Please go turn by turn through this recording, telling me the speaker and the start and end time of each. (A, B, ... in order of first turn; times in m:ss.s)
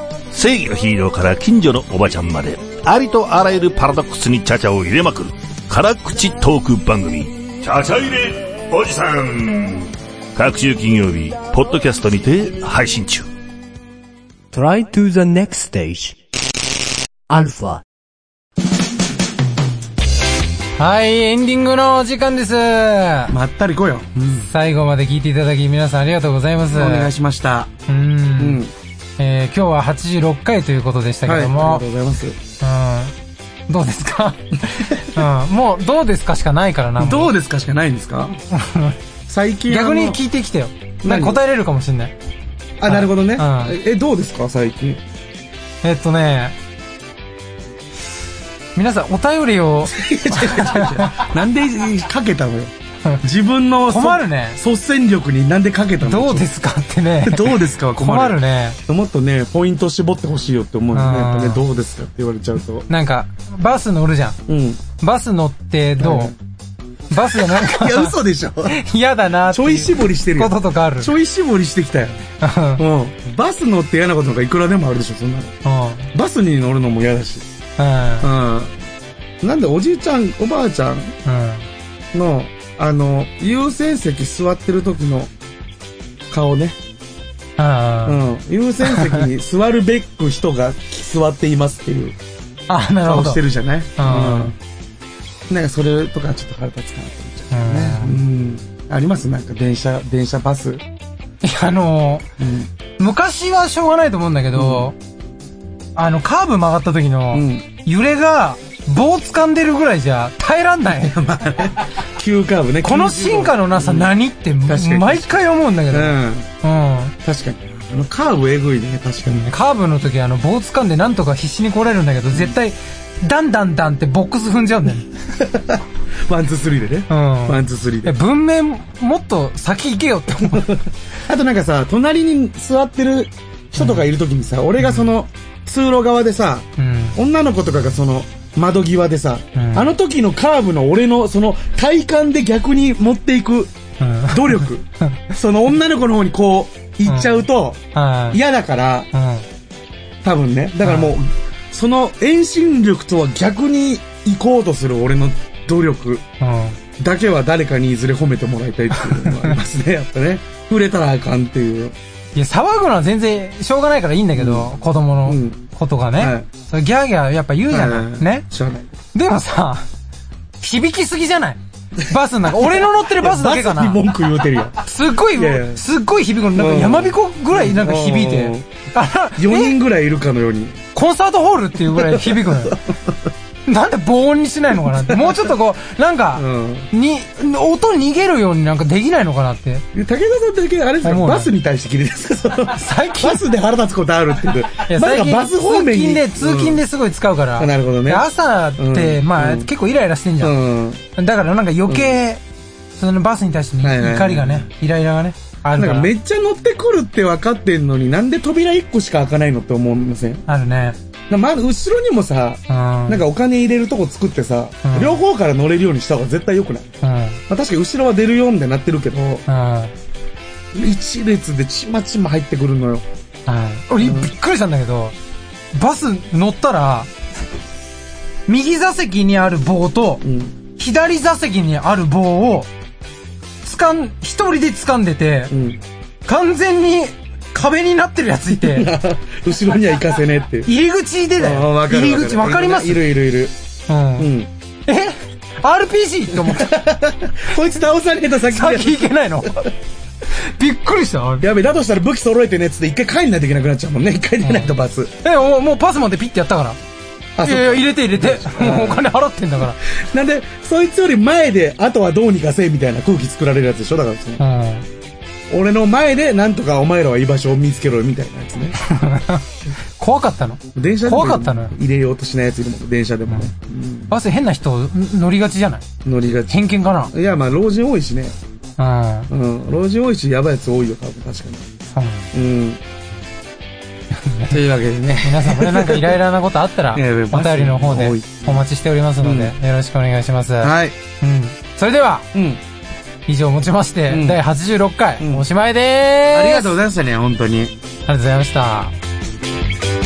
0:00.3-0:13.3 A
0:14.5-0:16.2 B
0:17.3-0:17.8 B
0:20.8-0:23.3 C
0:23.3-0:24.5 D
0:24.4-0:27.1 C
0:26.7-0:27.7 D
0:27.9-0:28.6 C
0:28.4-0:28.7 D
0:29.2-0:31.8 C
0:31.2-0:32.4 D
0:32.6-0:33.1 C
0:33.7-0:37.3 C
0:34.7-0:35.2 D
0:37.0-0:38.4 D
0:38.5-0:39.0 C
0:39.3-0:40.2 D
0:39.7-0:42.1 C
0:41.0-0:41.4 D
0:42.8-0:45.0 D
0:42.9-0:43.8 C
0:45.8-0:46.5 C
0:48.7-0:51.2 C
0:49.8-0:56.5 D
0:53.9-0:54.6 C
0:56.0-0:58.8 C
0:57.2-1:02.9 D
1:00.9-1:01.6 C
1:02.9-1:04.4 C
1:04.5-1:04.8 D
1:05.0-1:06.3 C
1:06.0-1:06.3 D
1:07.1-1:08.1 C
1:07.3-1:08.8 D
1:08.7-1:11.1 C
1:09.5-1:12.2 D
1:12.4-1:12.8 C
1:12.8-1:15.6 D
1:15.6-1:16.1 C
1:16.1-1:17.4 D
1:17.8-1:18.3 C
1:18.2-1:18.7 D
1:19.4-1:21.1 D
1:21.2-1:21.6 C
1:22.1-1:25.3 D
1:26.3-1:26.8 D
1:27.6-1:28.2 C
1:28.0-1:32.2 D
1:28.8-1:29.3 C
1:32.7-1:33.4 C
1:33.0-1:34.6 D
1:34.0-1:34.5 C
1:35.5-1:40.8 D
1:37.5-1:38.2 C
1:41.4-1:42.3 C
1:42.4-1:42.7 D
1:43.0-1:44.9 C
1:44.5-1:44.9 D
1:46.0-1:51.2 C
1:47.3-1:47.7 D
1:51.0-1:54.1 D
1:52.8-1:57.1 C
1:54.7-1:56.5 D
1:57.2-1:59.5 D
1:59.5-2:05.1 C
2:05.4-2:08.2 D
2:07.1-2:10.8 C
2:10.4-2:23.7 D
2:13.8-2:14.1 C
2:14.8-2:15.1 C
2:16.8-2:17.2 C
2:19.5-2:19.9 C
2:24.0-2:25.2 C
2:24.3-2:29.1 D
2:27.0-2:28.4 C
2:29.1-2:29.4 C
2:30.2-2:36.2 D
2:30.8-2:31.1 C
2:36.4-2:36.8 C
2:37.0-2:42.0 D
2:38.9-2:39.5 C
2:42.3-2:48.5 C
2:44.4-2:44.7 D
2:45.2-2:45.6 D
2:46.2-2:46.5 D
2:47.7-2:48.9 D
2:49.1-2:49.8 C
2:50.6-2:54.0 C
2:52.5-2:55.8 D
2:54.8-2:59.8 C
2:56.5-2:58.7 D
2:59.4-3:00.8 D
3:00.9-3:02.8 C
3:01.9-3:03.3 D
3:03.7-3:09.8 C
3:05.1-3:05.5 D
3:06.4-3:06.9 D
3:09.9-3:16.8 D
3:11.0-3:11.5 C
3:12.7-3:13.4 C
3:14.9-3:20.6 C
3:17.6-3:19.7 D
3:20.4-3:21.0 D
3:21.2-3:22.4 C
3:21.9-3:22.2 D
3:23.0-3:26.1 C
3:23.8-3:24.7 D
3:25.8-3:30.4 D
3:30.5-3:31.0 C
3:31.3-3:36.9 D
3:32.7-3:33.2 C
3:34.8-3:35.2 C
3:37.0-3:37.4 C
3:37.5-3:39.4 D
3:39.5-3:39.9 C
3:40.7-3:43.0 D
3:43.5-3:45.2 C
3:44.0-3:44.3 D
3:45.7-3:47.1 C
3:48.5-3:50.2 C
3:50.2-3:50.6 D
3:50.8-3:52.7 C
3:53.6-3:55.5 C
3:55.5-3:55.8 D
3:56.2-3:58.9 C
3:58.6-4:00.7 D
4:00.6-4:03.1 C
4:01.4-4:03.5 D
4:03.9-4:04.3 C
4:04.2-4:04.5 D
4:04.9-4:06.8 C
4:06.4-4:09.7 D
4:08.4-4:09.7 C
4:10.4-4:11.5 C
4:11.4-4:15.1 D
4:14.4-4:14.7 C
4:15.2-4:16.8 C
4:17.4-4:19.0 D
4:17.4-4:19.8 C
4:19.8-4:24.4 D
4:24.4-4:24.8 C
4:25.5-4:28.8 D
4:28.8-4:29.4 C
4:30.0-4:31.7 C
4:30.7-4:34.1 D
4:34.1-4:35.8 C
4:36.0-4:38.4 D
4:36.5-4:37.1 C
4:38.8-4:39.3 C
4:39.3-4:41.7 D
4:41.9-4:42.3 C
4:42.3-4:42.8 D
4:44.1-4:44.6 C
4:44.5-4:46.2 D
4:45.2-4:52.3 C
4:46.9-4:48.6 D
4:49.2-4:49.5 D
4:50.6-4:51.0 D
4:52.3-4:52.6 D
4:53.3-4:56.8 C
4:54.1-4:54.4 D
4:55.2-4:55.4 D
4:56.3-4:57.7 D
4:58.1-4:58.9 C